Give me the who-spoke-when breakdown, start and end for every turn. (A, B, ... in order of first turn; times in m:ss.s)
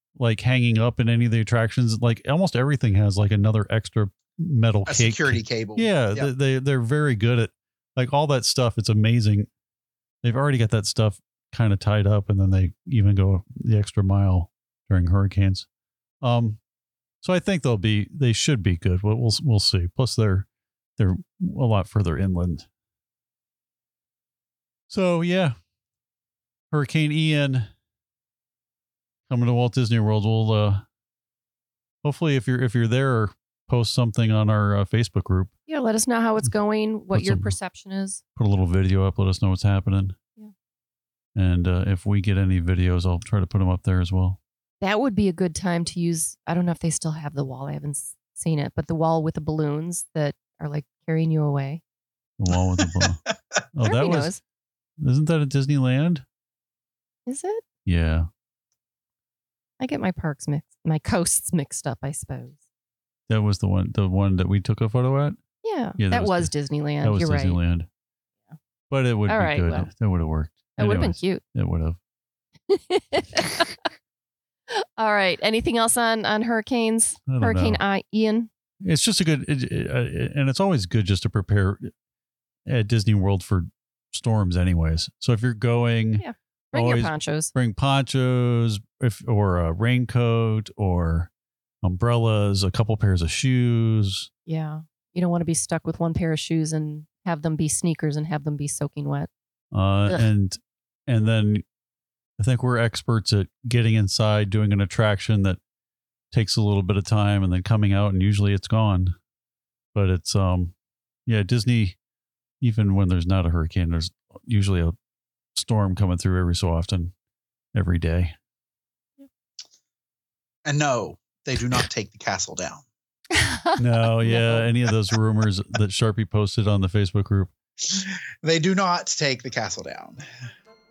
0:00.2-0:09.5 A
0:04.8-0:06.3 B
0:10.2-0:15.6 A
0:16.2-0:16.6 A
0:17.2-0:20.4 A
0:21.0-0:22.6 A
0:24.9-0:25.5 A
0:26.7-0:27.7 A
0:29.3-0:30.8 A
0:32.0-0:35.5 A
0:35.7-0:38.2 C
0:37.1-0:37.5 A
0:38.4-0:40.1 A
0:41.4-0:44.4 A
0:44.8-0:51.8 C
0:52.4-0:54.3 A
0:53.8-0:54.4 C
0:55.0-0:56.2 A
0:57.2-0:57.6 C
0:57.8-0:58.3 A
0:59.8-1:02.6 C
1:03.3-1:05.4 A
1:05.6-1:07.6 C
1:06.0-1:07.9 A
1:08.9-1:12.0 A
1:09.3-1:09.9 C
1:10.8-1:11.4 C
1:12.7-1:13.9 C
1:14.8-1:18.5 C
1:17.3-1:17.8 A
1:18.8-1:21.9 A
1:22.6-1:31.3 A
1:26.2-1:27.5 C
1:31.8-1:34.3 A
1:34.4-1:39.3 C
1:39.7-1:41.6 A
1:42.4-1:45.6 A
1:46.3-1:49.1 A
1:49.9-1:50.7 A
1:51.3-1:52.0 A
1:52.6-1:54.9 A
1:55.5-1:57.1 A
1:57.7-1:58.3 A
2:00.6-2:02.8 B
2:03.3-2:04.7 C
2:03.8-2:07.5 A
2:07.9-2:10.2 B